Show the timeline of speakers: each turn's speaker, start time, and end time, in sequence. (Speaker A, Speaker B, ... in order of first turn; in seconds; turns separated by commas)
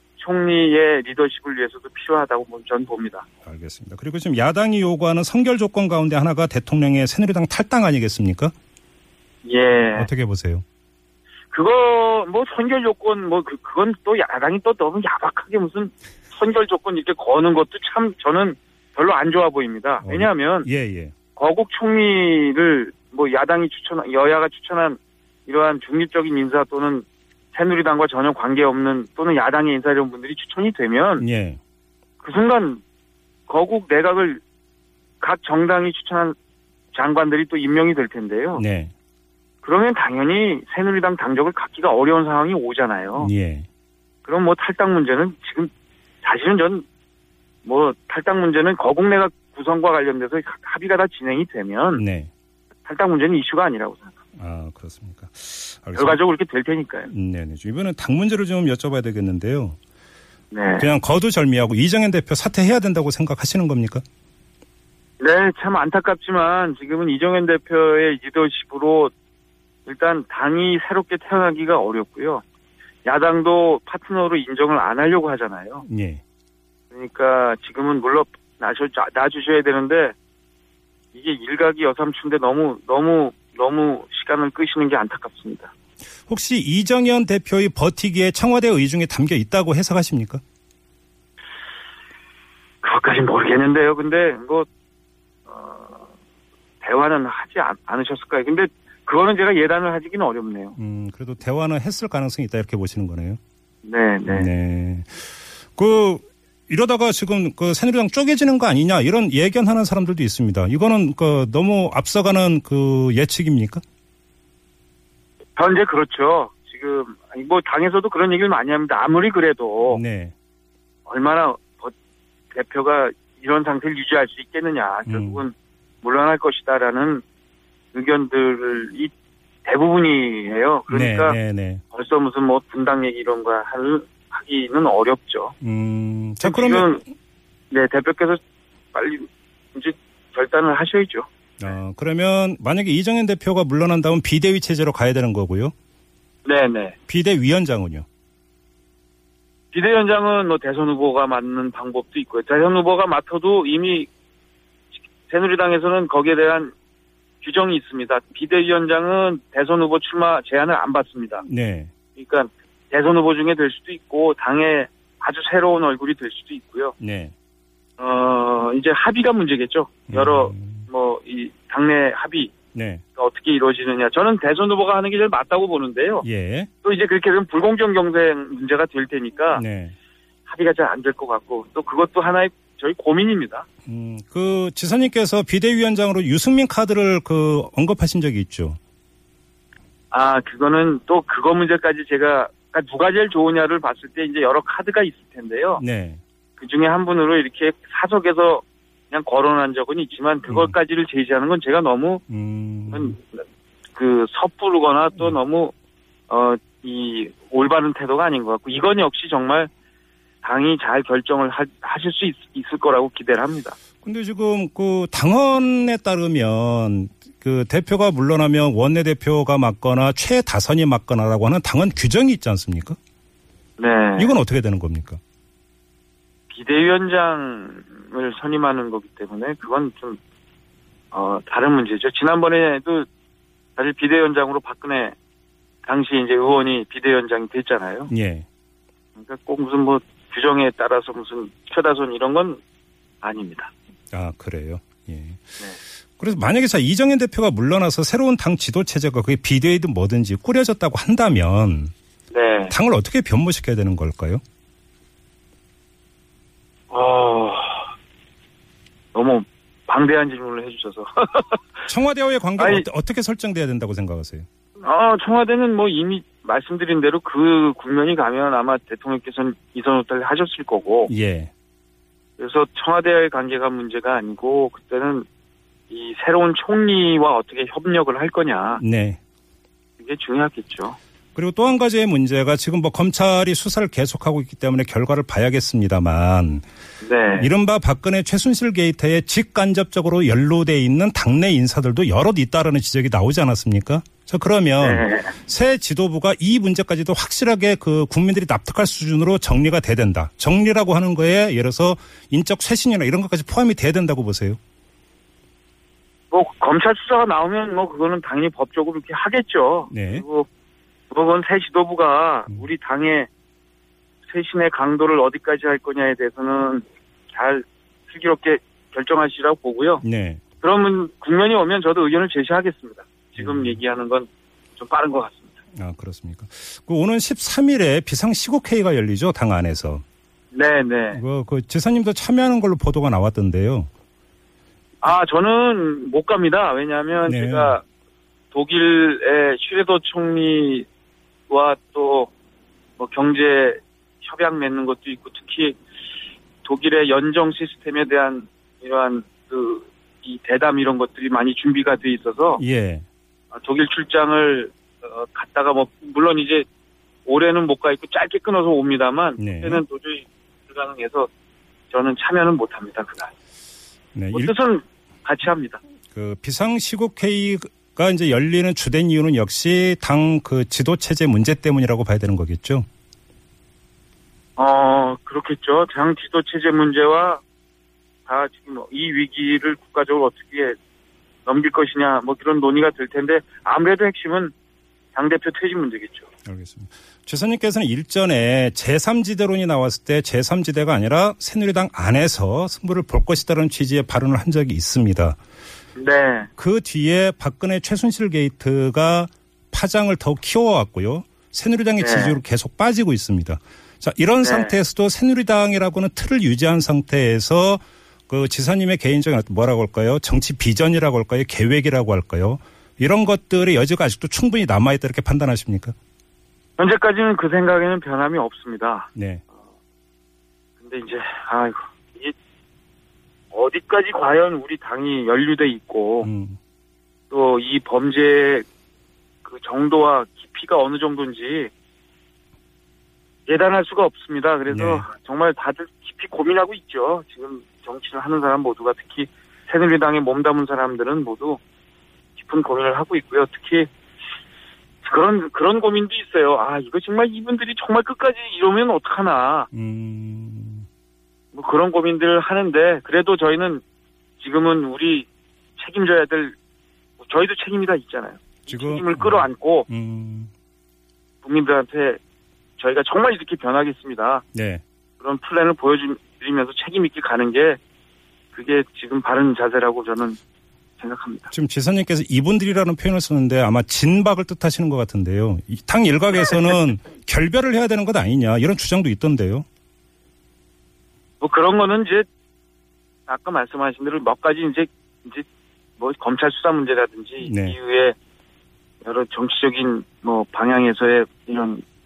Speaker A: 0.2-3.3, Speaker B: 3.5-8.5, Speaker A: 9.4-10.1, Speaker B: 9.9-10.6, Speaker A: 11.5-20.7, Speaker B: 20.0-21.1, Speaker A: 21.4-31.3, Speaker B: 31.2-31.6, Speaker A: 32.2-32.8, Speaker A: 33.5-34.4, Speaker A: 35.2-36.4, Speaker A: 36.9-38.6, Speaker B: 38.6-38.9, Speaker A: 39.6-43.3, Speaker B: 43.2-43.7, Speaker A: 44.2-45.7, Speaker A: 46.2-46.9, Speaker A: 47.6-52.0, Speaker B: 52.0-52.3, Speaker A: 52.9-54.1, Speaker B: 54.4-56.2, Speaker A: 56.0-57.1, Speaker B: 57.1-59.8, Speaker A: 60.5-60.9, Speaker B: 60.8-64.0, Speaker A: 65.2-69.1, Speaker A: 69.9-72.4, Speaker A: 73.0-75.8, Speaker B: 75.8-76.2, Speaker A: 76.9-80.2, Speaker A: 81.1-85.7, Speaker B: 86.3-90.4, Speaker A: 92.8-94.7, Speaker A: 95.5-96.1, Speaker A: 96.8-100.8, Speaker B: 100.8-103.4, Speaker A: 103.8-104.5, Speaker B: 104.3-113.8, Speaker A: 115.6-120.0, Speaker B: 119.8-120.3, Speaker A: 121.1-121.9, Speaker A: 122.5-127.2, Speaker B: 125.1-125.4, Speaker A: 127.9-129.1, Speaker A: 129.7-131.4, Speaker B: 130.9-131.8, Speaker A: 131.9-135.6, Speaker B: 135.6-136.9, Speaker A: 136.4-137.0, Speaker A: 137.7-138.4, Speaker A: 138.9-141.3, Speaker B: 141.6-145.7, Speaker A: 146.4-147.0, Speaker B: 147.1-148.1, Speaker A: 149.7-154.1, Speaker A: 155.0-156.7, Speaker A: 157.4-161.4, Speaker B: 161.4-161.9, Speaker A: 162.2-166.9, Speaker B: 167.0-167.3, Speaker A: 168.0-172.5, Speaker B: 170.1-170.8, Speaker B: 172.7-173.0, Speaker A: 173.2-176.2, Speaker B: 176.2-176.7, Speaker A: 176.8-179.6, Speaker B: 179.6-179.9, Speaker A: 180.5-183.7, Speaker B: 183.9-188.8, Speaker A: 190.1-195.8, Speaker B: 195.8-196.2, Speaker A: 196.6-202.2, Speaker B: 200.5-200.8, Speaker B: 202.3-203.2, Speaker A: 202.9-203.4, Speaker A: 203.9-205.7, Speaker A: 206.3-209.7, Speaker A: 210.4-213.8, Speaker B: 214.0-223.0, Speaker A: 223.8-224.4, Speaker B: 224.2-225.2, Speaker A: 226.5-230.2, Speaker A: 231.1-233.1, Speaker A: 233.8-235.2, Speaker A: 235.8-238.1, Speaker B: 238.1-238.5, Speaker A: 239.2-242.6, Speaker A: 243.2-243.7, Speaker B: 244.1-245.4, Speaker B: 246.2-251.9, Speaker A: 252.3-252.8, Speaker B: 252.7-254.4, Speaker A: 256.9-257.9, Speaker A: 259.1-261.9, Speaker B: 261.9-264.5, Speaker A: 262.6-262.9, Speaker A: 264.8-271.1, Speaker B: 271.1-271.5, Speaker A: 272.4-275.3, Speaker A: 275.9-278.8, Speaker B: 278.8-279.2, Speaker A: 280.0-281.0, Speaker B: 281.4-286.6, Speaker A: 287.0-287.5, Speaker B: 287.4-304.6, Speaker A: 294.8-295.3, Speaker A: 306.3-310.5, Speaker B: 309.9-310.2, Speaker A: 311.1-313.3, Speaker A: 314.3-320.0, Speaker B: 320.0-320.4, Speaker A: 320.6-325.5, Speaker B: 323.4-323.8, Speaker B: 325.8-330.0, Speaker A: 330.5-331.2, Speaker B: 331.1-333.9, Speaker A: 335.0-337.8, Speaker B: 337.3-337.8, Speaker A: 338.5-340.9, Speaker A: 341.5-342.3, Speaker A: 343.0-345.8, Speaker A: 346.6-352.6, Speaker B: 352.6-353.1, Speaker A: 353.5-356.7, Speaker A: 357.3-361.3, Speaker B: 359.4-359.8, Speaker A: 361.9-363.3, Speaker B: 364.1-364.5, Speaker A: 364.3-365.8, Speaker B: 366.1-372.9, Speaker A: 374.6-377.4, Speaker A: 378.3-380.8, Speaker A: 381.5-384.5, Speaker A: 385.1-386.3, Speaker B: 386.5-395.4, Speaker A: 396.0-396.5, Speaker B: 396.6-415.9, Speaker A: 402.0-402.4, Speaker A: 404.4-404.8, Speaker A: 416.8-419.1, Speaker B: 419.1-419.4, Speaker A: 420.8-422.4, Speaker A: 423.5-426.3, Speaker B: 426.2-426.6, Speaker A: 427.3-428.7, Speaker A: 429.4-431.7, Speaker A: 433.5-441.6, Speaker B: 434.7-435.1, Speaker A: 442.4-443.9, Speaker A: 445.0-449.7, Speaker B: 449.7-450.9, Speaker A: 451.5-453.8, Speaker A: 454.4-456.6, Speaker A: 457.2-459.9, Speaker B: 458.7-460.5, Speaker A: 461.4-462.2, Speaker A: 462.8-464.4, Speaker B: 464.5-464.8, Speaker A: 465.2-467.8, Speaker A: 468.5-470.4, Speaker A: 471.0-471.5, Speaker B: 471.5-479.6, Speaker A: 481.4-482.3, Speaker A: 483.3-485.5, Speaker A: 486.0-488.2, Speaker B: 487.4-487.8, Speaker A: 489.0-491.8